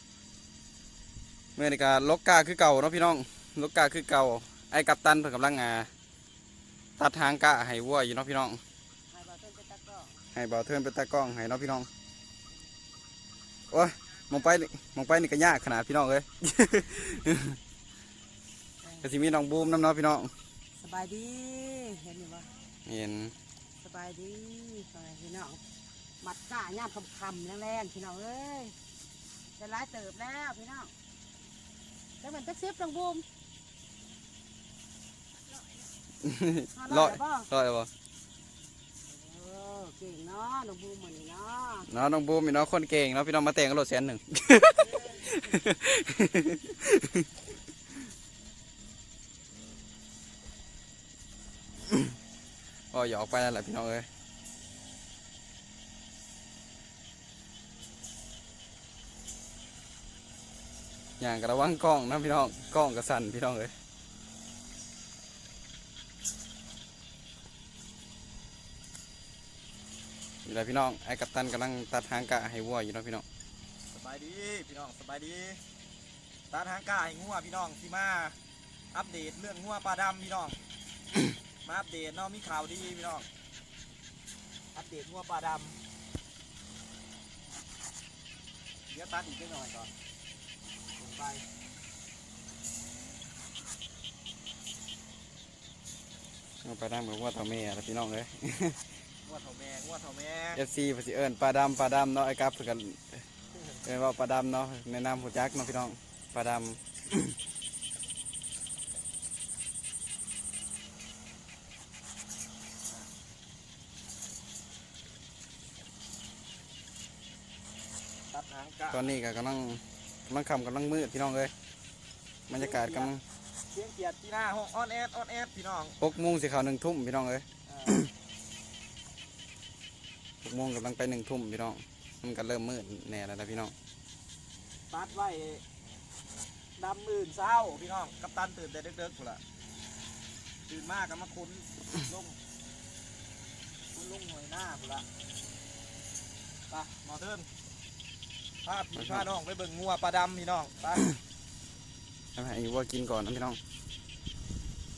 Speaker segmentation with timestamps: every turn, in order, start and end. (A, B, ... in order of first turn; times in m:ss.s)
0:01.6-0:05.9 A
0:07.0-0:08.6 A
0:09.1-0:10.2 B
0:10.3-0:11.9 A
0:13.7-0:17.6 A
0:19.0-0:20.3 A
0:20.8-0:22.5 B
0:22.9-0:23.3 A
0:23.8-0:25.6 B
0:26.2-0:28.8 B
0:29.6-0:30.9 B
0:32.2-0:33.3 B
0:36.2-0:37.9 A
0:36.7-0:37.5 B
0:39.1-0:41.9 B
0:41.9-0:47.3 A
0:45.0-0:45.3 C
0:52.9-0:54.1 A
1:01.2-1:03.7 A
1:10.5-1:13.2 A
1:13.9-1:15.6 C
1:16.5-1:18.4 C
1:18.9-1:20.6 C
1:21.6-1:23.3 C
1:24.7-1:25.8 C
1:28.9-1:29.9 C
1:31.0-1:31.5 C
1:36.6-1:38.8 A
1:39.2-1:40.6 C
1:40.6-1:43.2 A
1:43.8-1:47.4 A
1:58.3-1:59.1 C
1:58.9-2:01.5 A
2:02.5-2:03.2 A
2:02.5-2:03.1 C
2:03.7-2:06.0 C
2:06.0-2:08.1 A
2:07.7-2:08.0 C
2:10.4-2:13.7 A
2:14.9-2:15.6 C
2:16.8-2:19.4 C
2:20.7-2:22.4 C
2:23.9-2:25.1 C
2:26.7-2:27.5 C
2:28.6-2:31.1 C
2:29.0-2:29.3 A
2:32.4-2:33.6 A